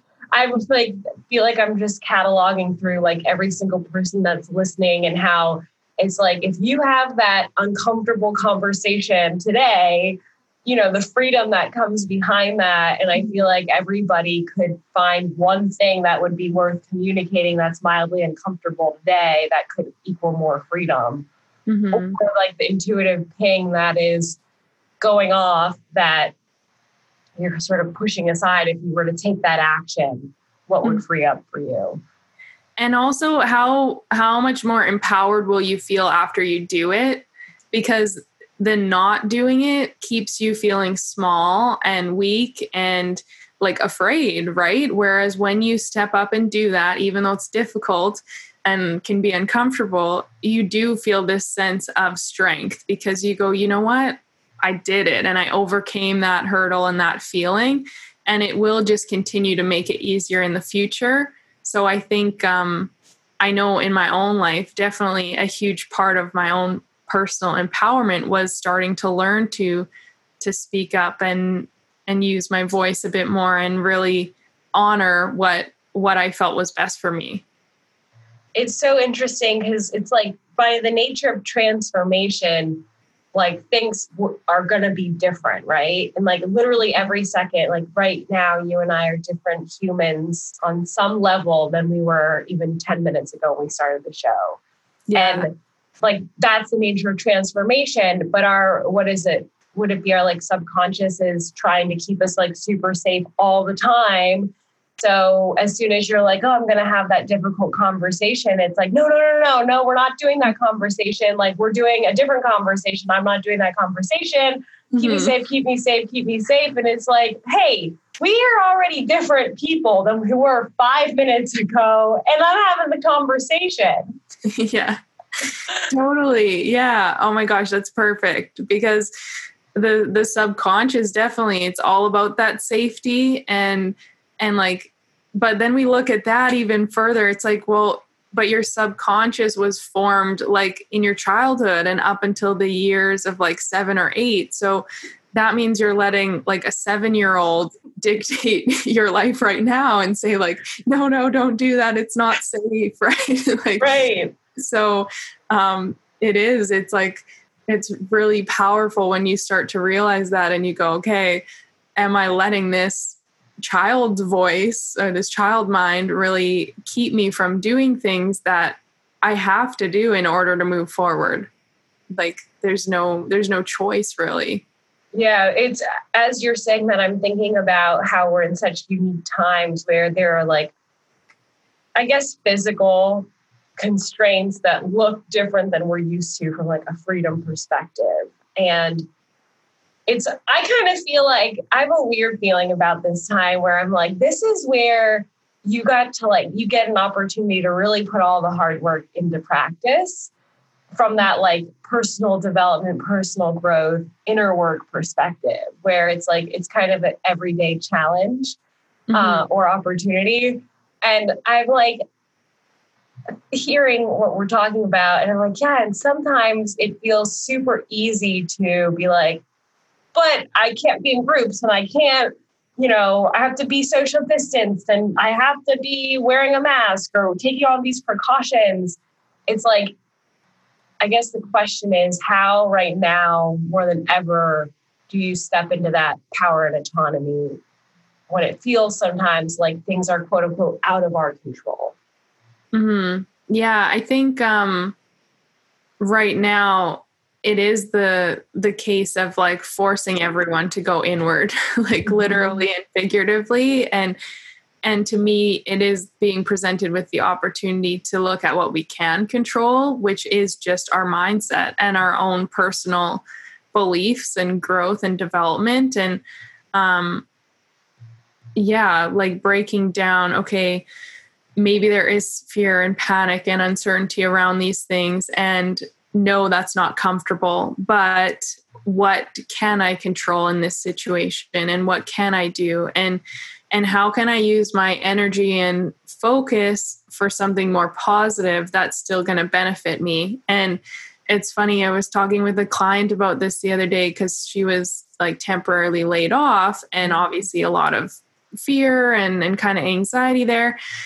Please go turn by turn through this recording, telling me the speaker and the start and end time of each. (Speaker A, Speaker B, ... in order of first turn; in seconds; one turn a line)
Speaker A: 0.3-21.3
Speaker B: 21.7-22.2
Speaker A: 21.9-24.4
Speaker A: 25.0-26.3
Speaker A: 27.4-32.0
Speaker B: 32.8-69.9
Speaker B: 70.4-77.4
Speaker A: 78.5-82.8
Speaker A: 83.3-94.6
Speaker B: 95.1-95.5
Speaker A: 95.1-124.0
Speaker B: 114.9-115.3
Speaker B: 124.5-125.0
Speaker B: 125.9-129.1
Speaker B: 129.7-154.0
Speaker A: 153.8-154.3
Speaker B: 154.6-161.4
Speaker B: 162.0-171.5
Speaker B: 172.1-174.6
Speaker A: 175.1-180.7
Speaker A: 181.9-183.3
Speaker A: 183.8-189.1
Speaker A: 190.1-200.3
Speaker A: 200.9-208.6
Speaker B: 209.1-209.4
Speaker A: 209.1-212.0
Speaker A: 213.5-219.4
Speaker A: 220.1-229.9
Speaker A: 231.0-237.6
Speaker A: 238.3-241.9
Speaker B: 242.7-244.9
Speaker B: 246.0-254.2
Speaker A: 252.1-252.5
Speaker B: 254.8-266.2
Speaker B: 266.7-267.2
Speaker B: 268.6-270.9
Speaker B: 271.6-300.8